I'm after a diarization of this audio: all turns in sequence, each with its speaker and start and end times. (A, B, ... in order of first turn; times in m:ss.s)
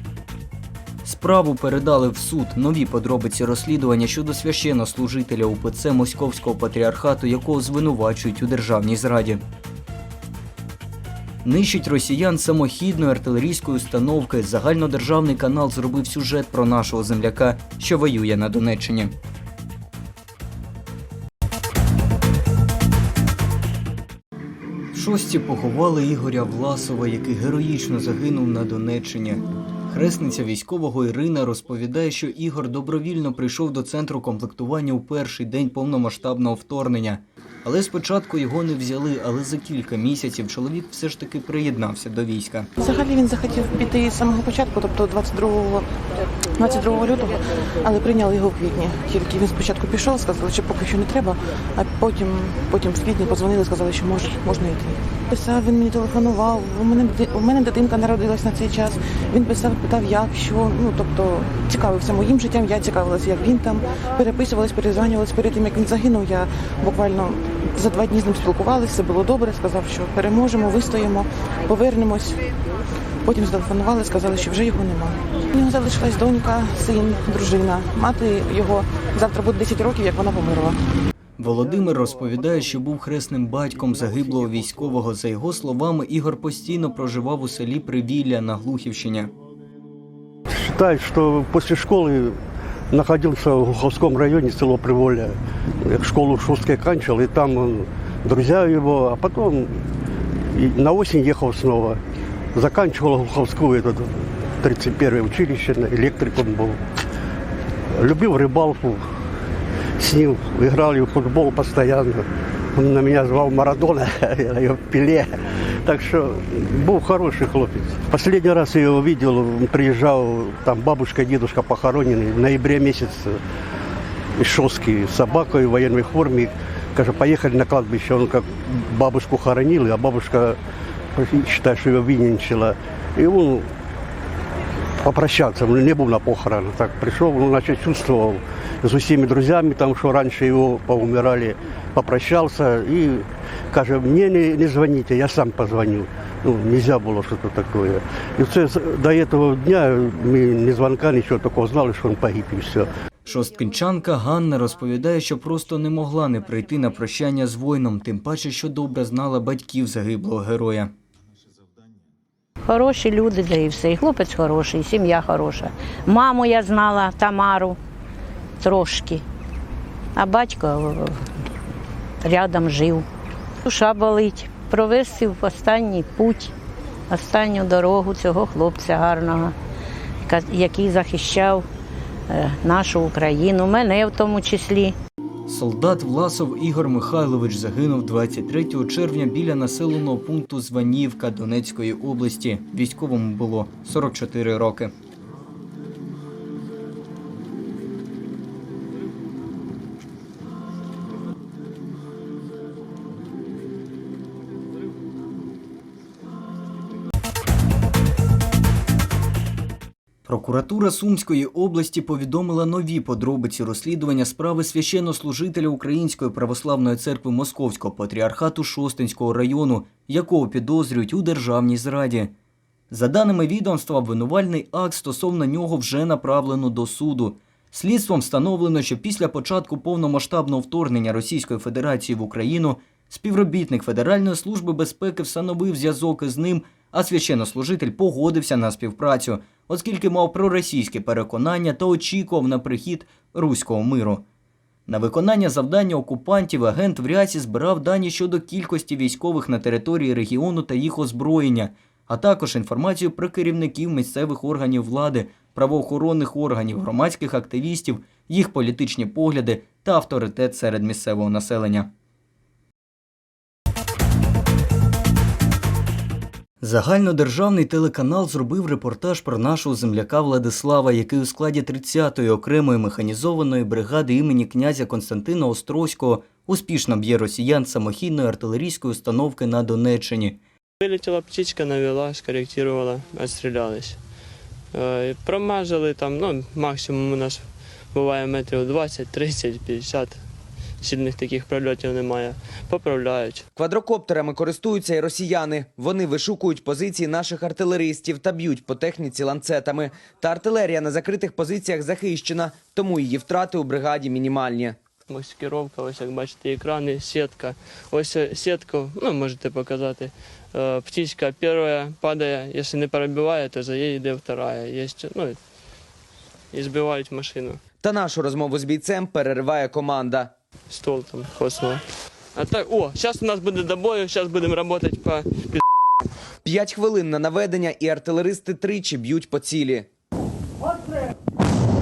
0:01.0-0:09.4 A
0:11.4-0:19.1 A
0:24.9-0:42.7 A
0:42.8-0:45.8 B
0:46.6-1:12.5 B
1:13.2-1:20.8 B
1:21.4-1:29.3 A
1:30.6-1:32.4 C
1:32.9-1:39.8 C
1:40.5-1:42.0 C
1:42.5-1:46.8 C
1:47.9-1:49.0 C
1:50.0-2:03.4 C
2:04.4-2:10.6 C
2:11.2-2:13.7 C
2:15.0-2:32.9 C
2:33.3-2:40.9 A
2:42.7-2:47.8 D
2:48.6-2:49.2 D
2:50.2-2:51.2 D
2:52.2-2:53.0 D
2:53.6-2:56.5 D
2:57.1-2:59.5 D
3:00.3-3:01.6 D
3:02.3-3:05.0 D
3:05.5-3:14.9 A
3:30.3-3:42.3 A
3:42.9-4:04.2 A
4:04.9-4:21.9 A
4:26.6-4:40.4 A
4:40.8-4:44.0 E
4:44.7-4:47.4 E
4:47.9-4:50.1 E
4:50.8-4:53.4 E
4:53.6-5:04.7 F
5:05.1-5:15.4 E
5:16.5-5:17.6 E
5:17.8-5:20.2 F
5:20.8-5:21.8 E
5:22.4-5:25.6 E
5:26.5-5:29.9 F